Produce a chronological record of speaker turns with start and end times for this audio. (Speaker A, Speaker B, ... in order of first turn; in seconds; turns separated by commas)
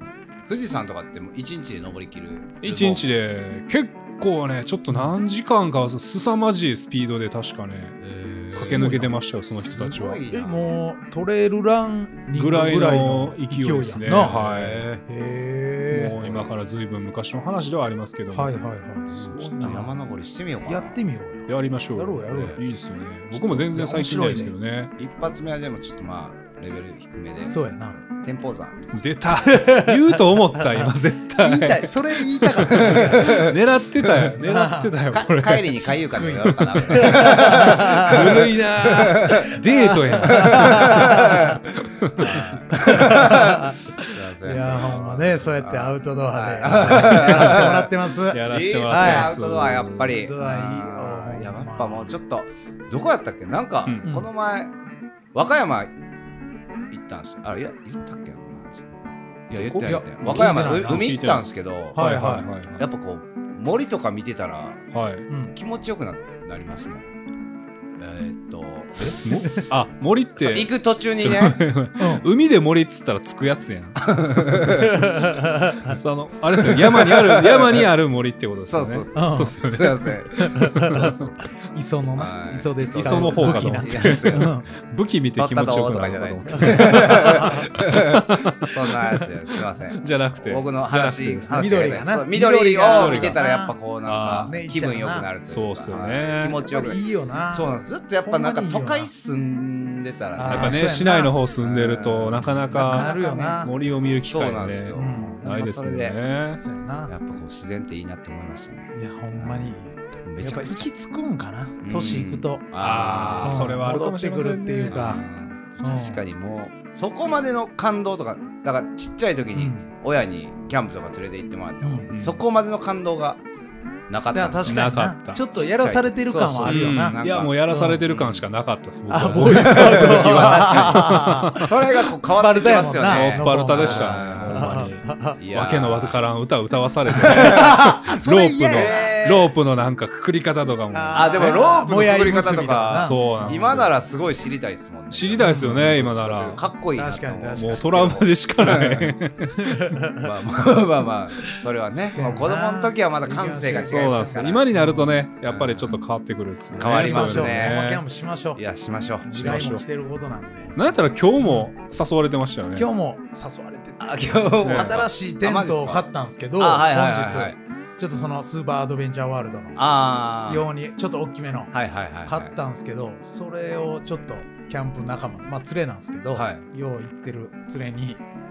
Speaker A: 0.5-3.0, Speaker B: 2.6-8.0, Speaker A: 8.0-8.9, Speaker B: 8.5-10.2, Speaker C: 8.6-9.2, Speaker A: 9.5-10.7, Speaker C: 10.3-14.4, Speaker B: 12.3-14.9, Speaker A: 14.2-15.0, Speaker C: 15.0-16.1, Speaker B: 15.9-18.5, Speaker A: 16.2-16.5, Speaker C: 18.3-22.6, Speaker A: 19.1-21.0, Speaker B: 21.5-24.9, Speaker C: 23.3-24.5, Speaker A: 25.0-29.0, Speaker C: 27.4-28.0, Speaker B: 28.9-44.2, Speaker C: 29.4-33.5, Speaker A: 32.7-33.6, Speaker C: 34.4-34.9, Speaker A: 35.1-39.6, Speaker C: 36.1-38.4, Speaker C: 39.4-41.6, Speaker A: 40.2-47.9, Speaker C: 42.3-49.3, Speaker B: 46.7-47.7, Speaker B: 48.3-50.2, Speaker A: 48.4-54.7, Speaker C: 50.1-52.1, Speaker A: 55.3-55.9, Speaker A: 56.9-58.8, Speaker A: 59.5-64.8, Speaker B: 59.5-62.9, Speaker C: 59.8-61.1, Speaker C: 61.9-62.5, Speaker B: 64.9-65.3, Speaker C: 65.3-65.5, Speaker A: 65.5-67.1, Speaker A: 68.0-69.3, Speaker C: 69.0-69.7, Speaker B: 69.2-74.7, Speaker A: 70.4-71.6, Speaker C: 72.0-72.2, Speaker A: 74.0-74.9, Speaker C: 74.7-76.0, Speaker B: 75.8-80.2, Speaker A: 76.6-77.9, Speaker A: 78.7-81.5, Speaker C: 79.1-79.5, Speaker C: 80.4-84.7, Speaker A: 82.2-84.5, Speaker B: 82.9-88.7, Speaker A: 85.3-100.8, Speaker C: 86.5-87.7, Speaker B: 90.0-91.8, Speaker C: 91.5-93.7, Speaker B: 92.9-93.4, Speaker B: 94.0-94.5, Speaker C: 94.5-95.3, Speaker B: 95.5-96.6, Speaker C: 96.6-97.7, Speaker C: 98.2-99.1, Speaker C: 100.3-101.3, Speaker B: 100.5-106.6, Speaker A: 101.6-103.7, Speaker C: 102.7-103.7, Speaker A: 104.2-106.2, Speaker C: 105.0-105.4, Speaker C: 106.6-107.1, Speaker A: 107.1-109.7, Speaker C: 108.9-112.6, Speaker A: 110.2-110.9, Speaker A: 111.8-113.8, Speaker B: 112.8-115.2, Speaker C: 113.4-115.2, Speaker A: 114.8-123.4, Speaker C: 115.8-116.2, Speaker C: 119.5-119.8, Speaker C: 121.8-122.1, Speaker B: 122.1-122.4, Speaker A: 124.1-124.9, Speaker C: 124.3-128.0, Speaker B: 124.7-125.4, Speaker A: 125.5-128.4, Speaker B: 126.6-131.7, Speaker C: 129.1-135.4, Speaker A: 129.5-134.7, Speaker B: 133.1-141.7, Speaker A: 135.4-136.2, Speaker A: 137.2-137.7, Speaker C: 137.2-139.0, Speaker A: 138.7-139.5, Speaker C: 140.9-143.9, Speaker A: 141.1-149.2, Speaker B: 142.9-143.9, Speaker B: 145.1-146.6, Speaker C: 145.4-145.9, Speaker C: 146.9-148.0, Speaker B: 147.6-149.9, Speaker C: 149.5-150.3, Speaker A: 150.2-154.7, Speaker C: 152.1-155.1, Speaker B: 153.8-158.0, Speaker A: 155.4-155.9, Speaker C: 156.7-158.6, Speaker A: 156.7-157.8, Speaker A: 158.6-159.6, Speaker C: 159.2-160.7, Speaker B: 159.3-159.8, Speaker B: 160.8-162.9, Speaker C: 161.4-161.7, Speaker C: 162.7-169.8, Speaker A: 164.0-166.0, Speaker B: 164.6-165.0, Speaker A: 166.6-167.6, Speaker A: 169.8-170.6, Speaker C: 170.4-171.7, Speaker A: 171.7-172.5, Speaker C: 172.3-178.2, Speaker A: 176.3-176.6